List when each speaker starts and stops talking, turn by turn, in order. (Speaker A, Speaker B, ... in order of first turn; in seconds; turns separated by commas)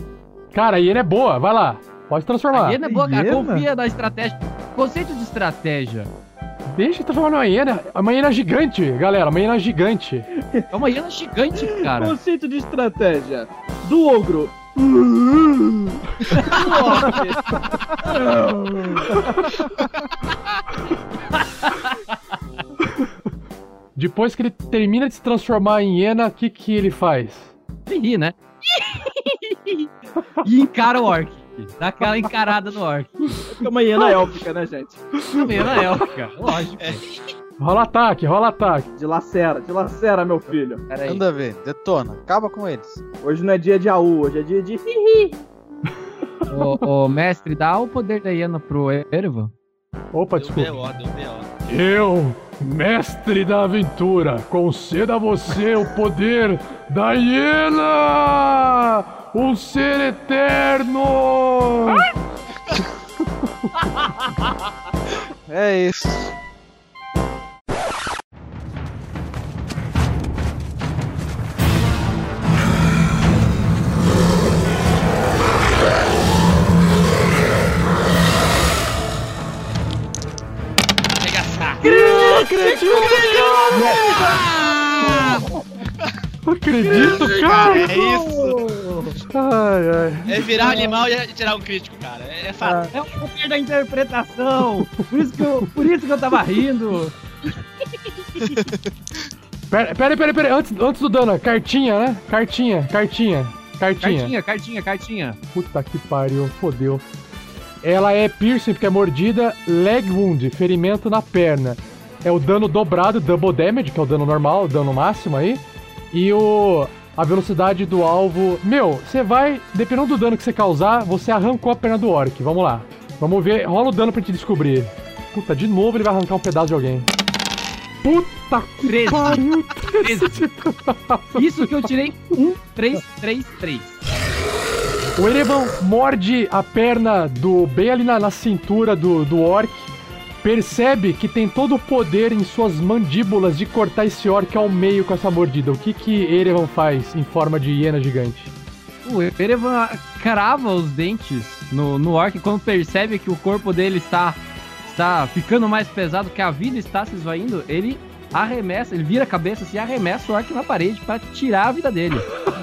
Speaker A: 0.5-2.8, Speaker B: 2.5-6.1, Speaker C: 2.8-3.7, Speaker A: 6.7-10.3, Speaker B: 10.7-12.2, Speaker C: 11.8-14.6, Speaker C: 16.4-17.4, Speaker B: 16.5-17.2, Speaker C: 18.0-18.9, Speaker B: 21.7-22.0, Speaker A: 24.0-27.5, Speaker B: 27.9-29.9, Speaker B: 30.4-33.4, Speaker C: 33.5-35.1, Speaker B: 35.3-37.0, Speaker A: 37.6-38.9, Speaker C: 39.0-40.9, Speaker B: 40.9-41.2, Speaker D: 41.0-43.0, Speaker C: 43.2-44.9, Speaker B: 46.5-49.5, Speaker A: 50.1-50.8, Speaker E: 50.4-51.5, Speaker A: 51.7-62.1, Speaker D: 65.5-66.3, Speaker E: 81.1-81.9, Speaker A: 81.8-84.2, Speaker B: 82.0-85.4, Speaker E: 83.0-85.3, Speaker C: 84.0-84.3, Speaker A: 86.5-88.0, Speaker B: 86.9-88.1, Speaker E: 86.9-88.6, Speaker B: 88.7-89.1, Speaker A: 89.3-90.4, Speaker E: 90.3-92.9, Speaker B: 90.5-91.0, Speaker B: 92.7-97.1, Speaker A: 99.7-104.3, Speaker B: 104.0-105.4, Speaker A: 105.5-107.0, Speaker A: 107.8-127.1, Speaker A: 128.0-131.5, Speaker B: 128.8-130.4, Speaker B: 131.3-134.0, Speaker A: 135.2-139.9, Speaker A: 140.4-148.5, Speaker B: 149.1-162.3